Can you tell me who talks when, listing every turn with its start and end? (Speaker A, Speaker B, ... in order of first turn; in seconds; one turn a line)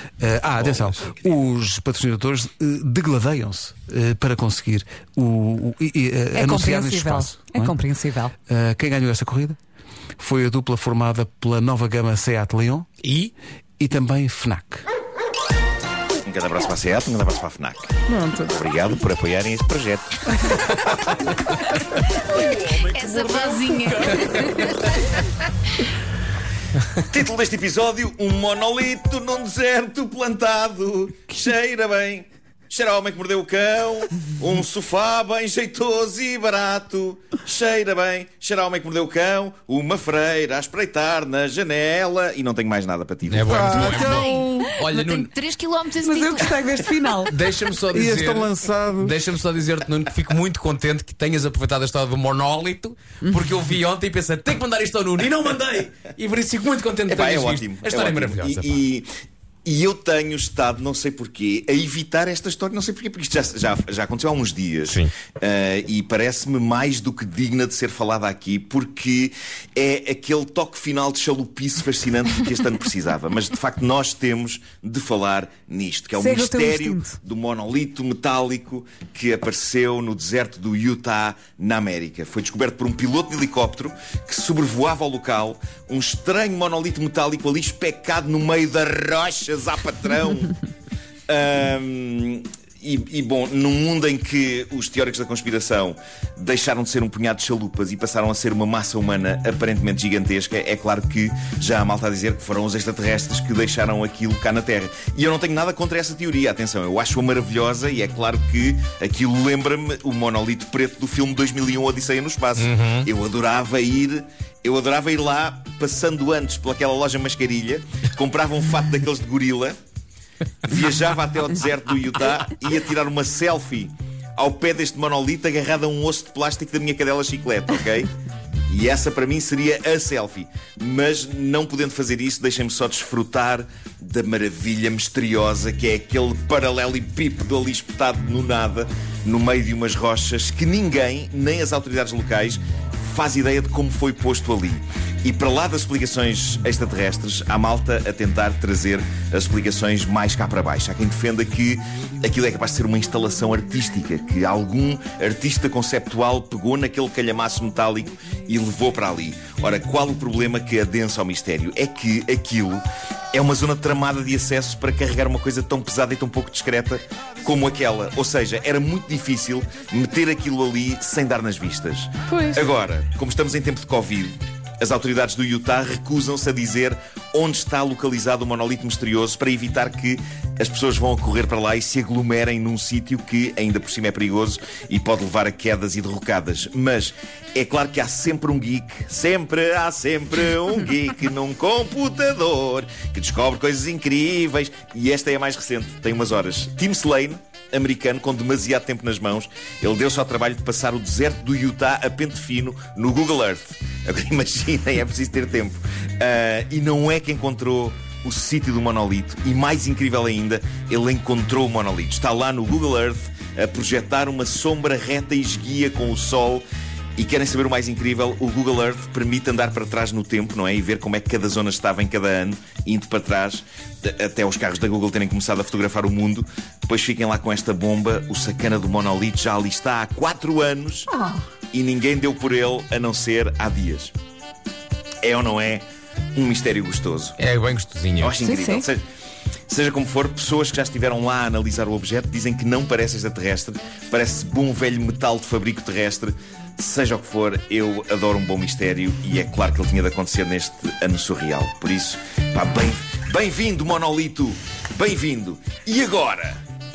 Speaker A: 0.2-7.7
Speaker B: 0.6-0.9
Speaker C: 6.3-8.3
Speaker A: 8.5-9.6
Speaker A: 10.2-12.9
Speaker D: 13.0-13.3
Speaker A: 13.8-14.8
Speaker B: 16.2-20.8
Speaker E: 22.3-25.1
Speaker B: 26.9-44.1
Speaker D: 43.3-45.3
Speaker A: 43.5-44.6
Speaker E: 44.0-46.9
Speaker C: 46.0-47.3
Speaker D: 47.2-58.7
Speaker A: 47.9-49.2
Speaker B: 57.1-59.1
Speaker B: 59.6-90.5
Speaker D: 64.8-65.1
Speaker C: 76.2-77.1
Speaker B: 91.3-119.8
Speaker D: 112.5-113.1
Speaker B: 120.6-128.1
Speaker B: 128.7-162.8
Speaker B: 163.3-216.6
Speaker C: 172.3-172.6
Speaker B: 217.2-231.1
Speaker C: 231.1-231.4
Speaker B: 231.7-234.1
Speaker B: 235.2-235.8
Speaker B: 236.3-237.4
Speaker D: 237.4-238.4
Speaker B: 238.2-239.0
Speaker C: 238.4-238.8
Speaker B: 239.7-256.6